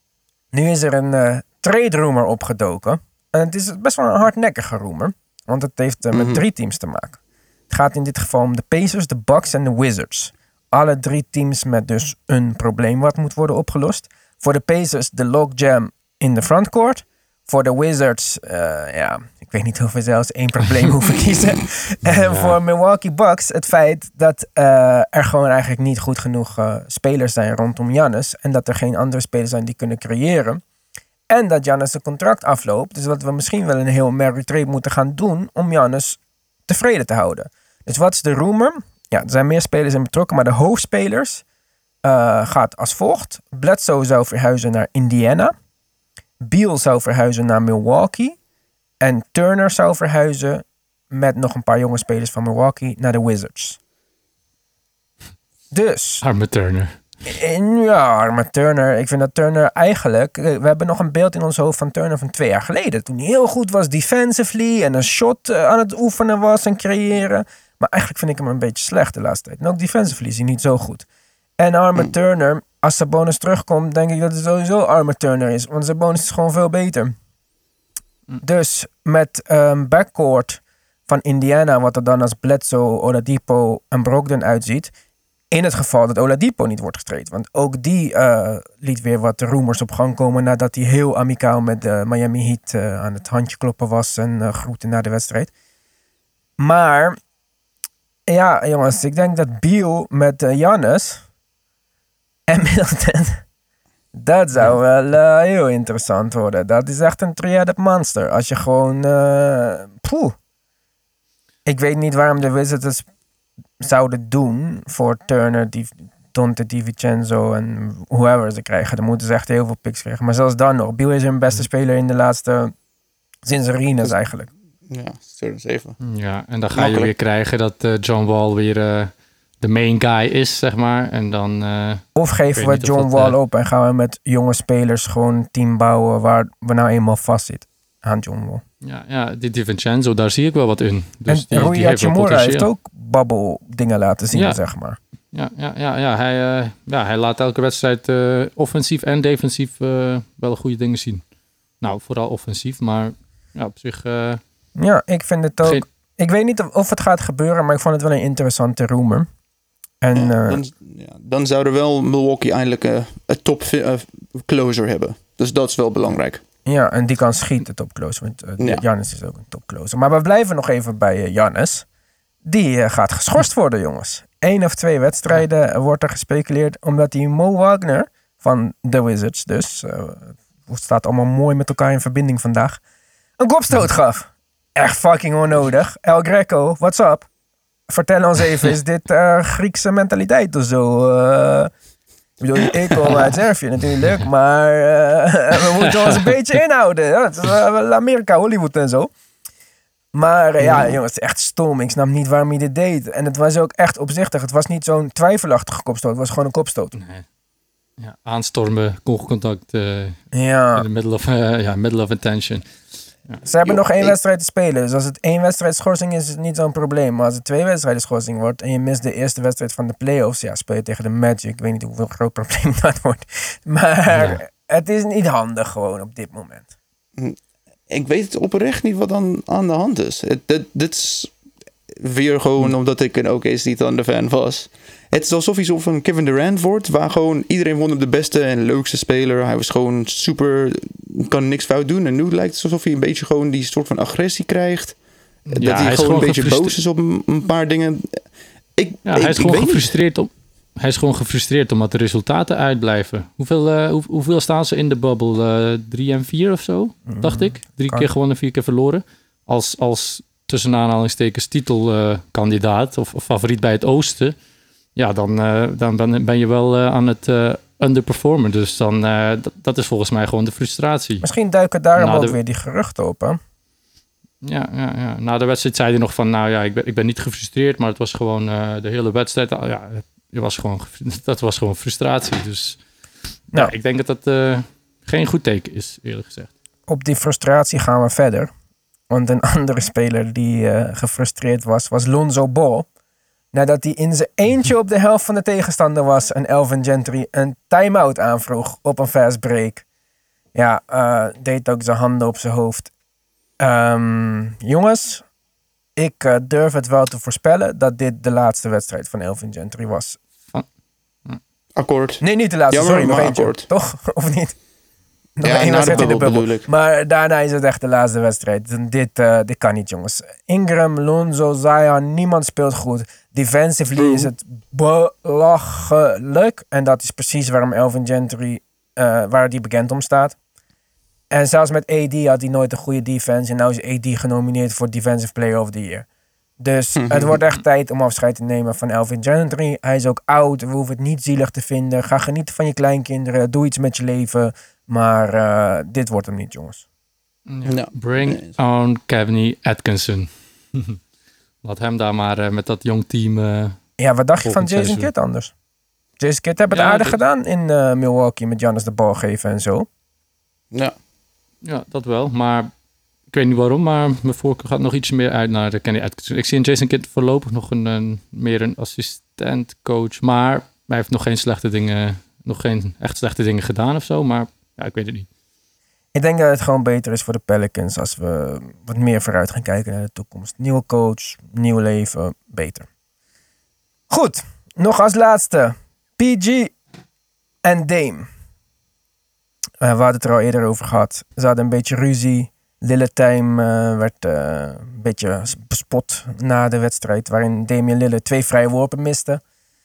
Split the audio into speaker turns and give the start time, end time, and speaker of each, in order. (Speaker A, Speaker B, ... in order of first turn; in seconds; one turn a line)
Speaker A: 0.5-30.6
Speaker B: 6.1-6.4
Speaker C: 22.1-22.6
Speaker A: 31.3-41.4
Speaker A: 42.0-45.5
Speaker A: 46.4-48.4
Speaker A: 49.0-53.8
Speaker A: 55.7-56.2
Speaker C: 56.2-57.0
Speaker A: 57.2-71.0
Speaker A: 71.6-77.1
Speaker A: 78.4-84.9
Speaker A: 85.5-95.5
Speaker A: 96.6-97.2
Speaker A: 98.3-101.2
Speaker A: 102.5-103.4
Speaker A: 104.1-110.3
Speaker A: 111.7-113.0
Speaker A: 113.8-122.7
Speaker A: 123.4-124.5
Speaker B: 124.9-126.0
Speaker C: 126.0-133.3
Speaker B: 126.7-127.1
Speaker A: 132.1-138.6
Speaker C: 138.8-142.7
Speaker A: 141.3-145.0
Speaker C: 144.3-144.6
Speaker C: 145.3-151.2
Speaker C: 151.8-154.4
Speaker A: 154.8-159.3
Speaker A: 160.0-160.6
Speaker B: 160.1-166.4
Speaker A: 166.6-171.8
Speaker A: 172.4-182.8
Speaker A: 183.4-187.3
Speaker A: 187.9-191.7
Speaker A: 192.4-199.1
Speaker C: 196.0-196.3
Speaker A: 200.1-206.9
Speaker B: 200.6-200.9
Speaker C: 206.9-207.2
Speaker C: 208.0-210.2
Speaker A: 210.3-210.8
Speaker C: 210.7-212.7
Speaker A: 213.4-226.7
Speaker B: 213.6-214.2
Speaker C: 224.1-224.4
Speaker B: 227.9-231.3
Speaker B: 231.9-244.9
Speaker C: 245.5-246.7
Speaker B: 245.5-248.2
Speaker B: 248.8-249.9
Speaker C: 249.1-264.3
Speaker A: 257.1-258.1
Speaker C: 264.9-271.2
Speaker A: 271.2-273.4
Speaker C: 272.0-272.4
Speaker C: 274.4-282.8
Speaker C: 283.5-286.5
Speaker A: 286.9-288.5
Speaker A: 289.1-292.9
Speaker A: 293.5-299.8
Speaker A: 300.5-302.9
Speaker A: 303.6-305.2
Speaker A: 306.0-310.2
Speaker B: 311.8-313.7
Speaker A: 312.2-314.6
Speaker A: 315.4-330.4
Speaker B: 315.4-316.7
Speaker C: 315.8-316.1
Speaker B: 323.9-324.3
Speaker A: 331.3-336.1
Speaker A: 336.6-346.8
Speaker B: 336.9-337.4
Speaker C: 347.5-351.0
Speaker B: 347.6-348.5
Speaker C: 351.6-353.8
Speaker A: 354.0-355.5
Speaker C: 354.4-355.1
Speaker A: 356.2-359.9
Speaker C: 356.7-357.2
Speaker C: 361.6-362.7
Speaker C: 363.3-375.3
Speaker A: 376.1-382.9
Speaker A: 384.1-386.7
Speaker A: 387.6-388.3
Speaker A: 389.8-399.4